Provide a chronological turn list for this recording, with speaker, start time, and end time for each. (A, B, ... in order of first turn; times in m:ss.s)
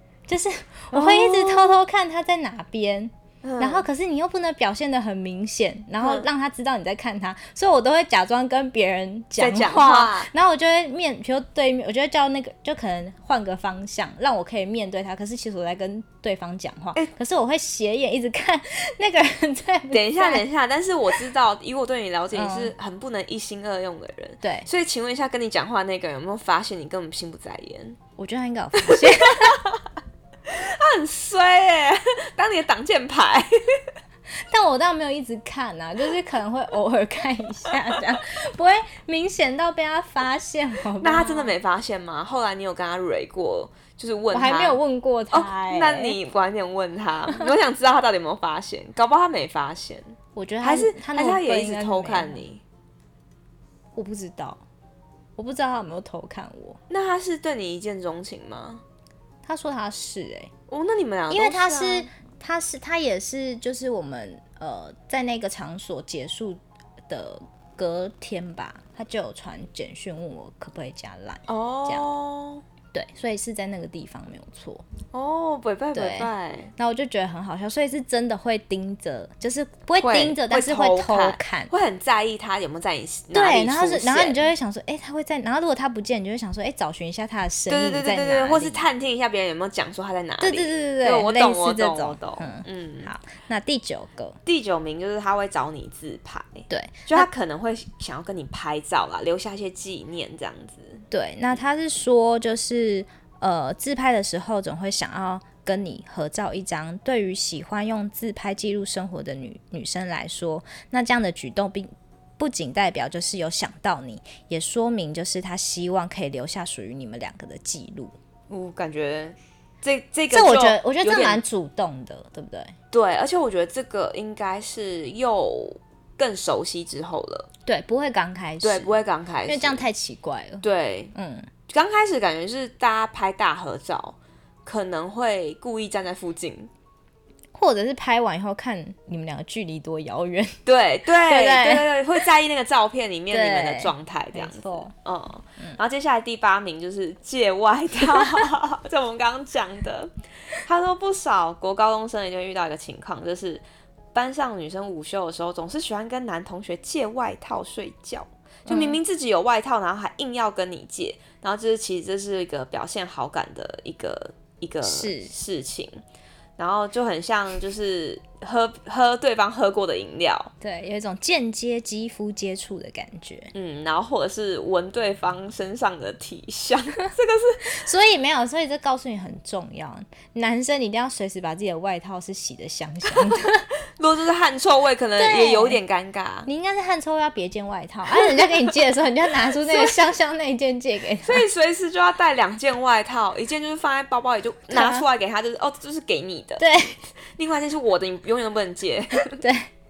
0:00.3-0:20.4 A
0:00.9-0:01.8 B
0:03.4-0:03.9 B
0:06.0-0:06.3 B
0:09.4-0:10.3 B
0:19.9-0:28.0 B
0:22.3-0:22.7 A
0:24.4-0:24.7 A
0:28.2-0:29.6 A
0:28.8-0:29.8 B
0:30.4-0:33.8 B
0:34.5-0:41.5 A
0:41.0-0:44.8 B
0:44.3-0:46.2 A
0:45.3-0:52.6 B
0:50.3-0:52.4 A
0:53.9-0:54.6 A
0:55.4-0:56.8 A
0:56.9-0:58.8 B
0:59.4-1:00.5 A
1:00.7-1:02.1 B
1:01.3-1:12.1 A
1:11.5-1:12.6 B
1:12.9-1:14.8 A
1:15.1-1:16.7 B
1:15.9-1:21.7 A
1:20.0-1:24.5 B
1:23.3-1:28.8 A
1:27.7-1:33.1 B
1:30.4-1:34.4 A
1:34.4-1:41.0 B
1:36.7-1:37.3 A
1:41.1-1:58.1 A
1:58.5-2:01.4 B
2:00.3-2:02.7 A
2:02.9-2:07.5 B
2:07.6-2:08.9 A
2:08.6-2:09.8 B
2:09.5-2:11.5 A
2:10.6-2:11.1 B
2:11.7-2:16.7 B
2:17.5-2:22.0 A
2:20.6-2:46.0 B
2:23.3-2:24.9 A
2:38.7-2:39.0 A
2:44.8-2:45.3 A
2:46.6-2:50.5 B
2:50.6-2:53.5 A
2:53.5-2:57.8 B
2:57.6-3:03.6 A
3:04.0-3:06.5 B
3:05.2-3:05.8 A
3:06.4-3:11.4 A
3:08.1-3:08.6 B
3:09.5-3:10.0 B
3:11.2-3:16.6 B
3:14.7-3:15.0 A
3:16.6-3:17.0 A
3:17.3-3:19.4 B
3:19.4-3:19.7 A